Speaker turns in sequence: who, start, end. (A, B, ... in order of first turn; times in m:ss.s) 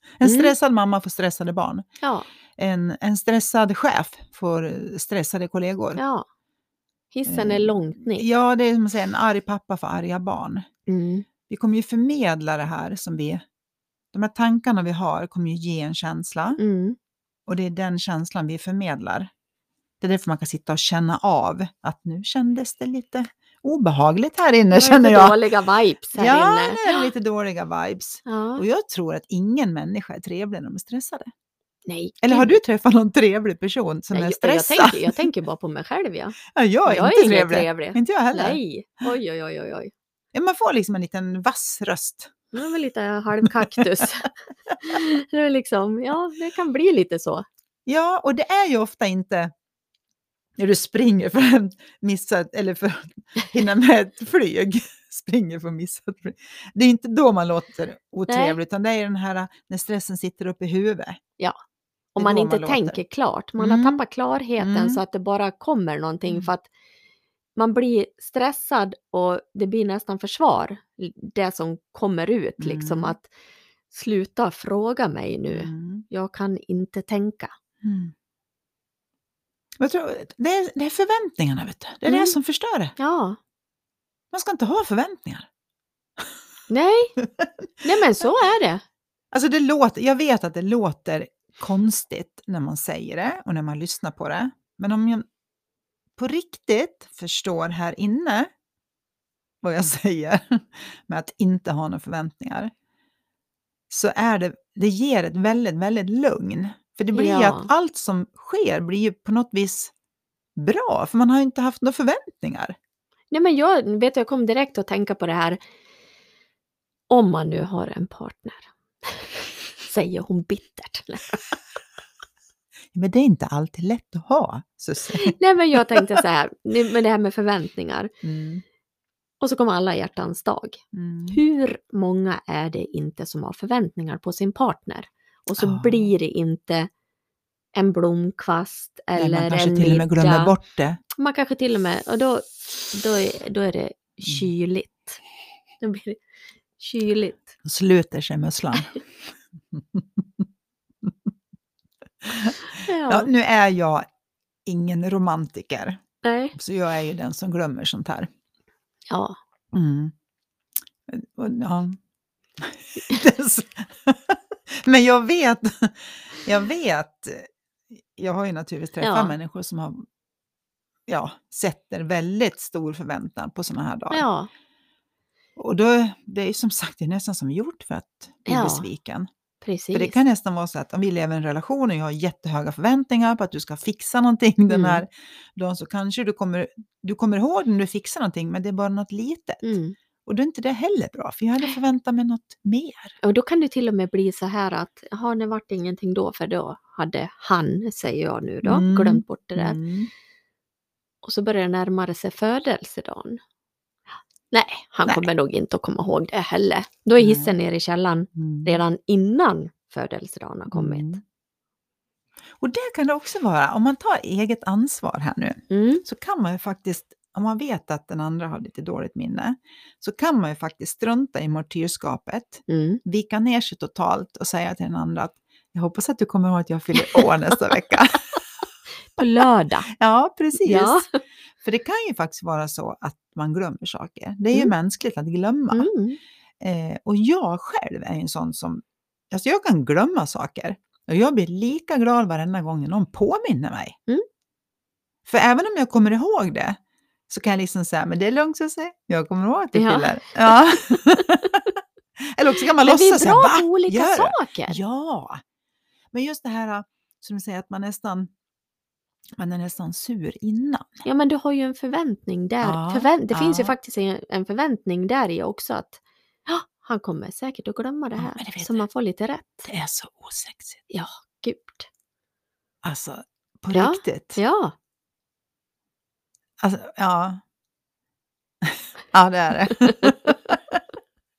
0:00.2-0:01.8 A
0:00.2-0:00.5 B
0:02.0-0:02.3 B
0:02.6-0:06.0 A
0:06.0-0:06.2 B
0:07.1-0:08.2 B
0:07.2-0:10.6 A
0:10.9-0:11.3 B
0:11.5-0:13.4 A
0:14.1-0:16.6 A
0:16.6-0:17.0 B
0:17.5-0:19.3 A
0:20.0-0:25.4 A
0:24.7-0:27.1 B
0:26.1-0:31.3 A
0:28.2-0:28.6 B
0:31.8-0:32.6 B
0:32.2-0:35.2 A
0:34.1-0:39.9 B
0:36.5-0:38.6 A
0:40.3-0:42.3 A
0:42.5-0:47.4 B
0:43.4-0:44.0 A
0:47.8-0:49.5 A
0:50.6-1:01.2 A
0:58.3-0:58.6 B
1:02.1-1:06.7 B
1:02.2-1:03.0 A
1:03.6-1:04.0 A
1:04.6-1:05.0 A
1:07.6-1:13.3 B
1:12.6-1:13.2 A
1:13.9-1:17.5 B
1:15.5-1:16.0 A
1:17.8-1:18.1 A
1:19.8-1:22.9 A
1:22.0-1:22.4 B
1:23.0-1:23.4 B
1:24.3-1:25.5 A
1:26.7-1:27.1 B
1:27.2-1:28.3 A
1:27.8-1:28.8 B
1:29.3-1:35.2 A
1:36.2-1:38.5 A
1:39.6-1:42.7 A
1:43.9-1:49.9 A
1:47.1-1:47.7 B
1:50.6-1:52.8 A
1:53.3-1:55.6 B
1:57.1-1:59.3 B
1:59.8-2:01.6 B
2:02.9-2:06.2 A
2:05.1-2:08.1 B
2:08.2-2:08.6 A
2:09.4-2:10.8 B
2:10.9-2:11.4 A
2:11.3-2:16.9 B
2:15.6-2:16.1 A
2:17.7-2:20.5 B
2:19.2-2:21.0 A
2:21.2-2:25.2 B
2:25.8-2:26.2 B
2:26.8-2:27.5 B
2:27.6-2:29.0 A
2:29.7-2:30.4 A
2:32.2-2:34.0 A
2:32.8-2:33.3 B
2:34.6-2:36.0 A
2:36.2-2:36.5 B
2:36.5-2:38.3 A
2:39.1-2:39.4 B
2:39.7-2:40.1 A
2:41.1-2:42.0 A
2:42.6-2:50.0 A
2:49.0-2:49.3 B
2:51.1-2:54.2 A
2:54.1-2:54.5 B
2:55.6-2:59.3 A
2:58.5-2:58.9 B
2:59.6-3:00.2 B
2:59.9-3:09.7 A
3:04.7-3:05.0 B
3:09.6-3:10.0 B
3:10.2-3:13.2 A
3:13.2-3:19.8 B
3:18.6-3:20.1 A
3:21.2-3:23.4 B
3:24.5-3:31.2 B
3:27.2-3:27.5 A
3:28.4-3:28.8 A
3:30.7-3:31.2 A
3:32.6-3:48.4 A
3:35.7-3:36.0 B
3:42.7-3:43.0 B
3:49.2-3:49.9 B
3:49.9-3:51.0 A
3:50.5-3:51.0 B
3:51.6-3:55.9 A
3:55.7-3:56.2 B
3:56.6-4:04.0 A
4:05.3-4:06.8 A
4:07.3-4:11.7 A
4:09.7-4:10.8 B
4:12.2-4:15.4 A
4:12.8-4:14.8 B
4:16.1-4:18.3 A
4:19.4-4:21.0 A
4:21.0-4:29.7 B
4:22.6-4:23.7 A
4:28.2-4:28.8 A
4:29.7-4:30.8 A
4:30.9-4:31.9 B
4:32.8-4:34.4 A
4:33.7-4:34.7 B
4:36.6-4:37.4 A
4:38.6-4:40.8 A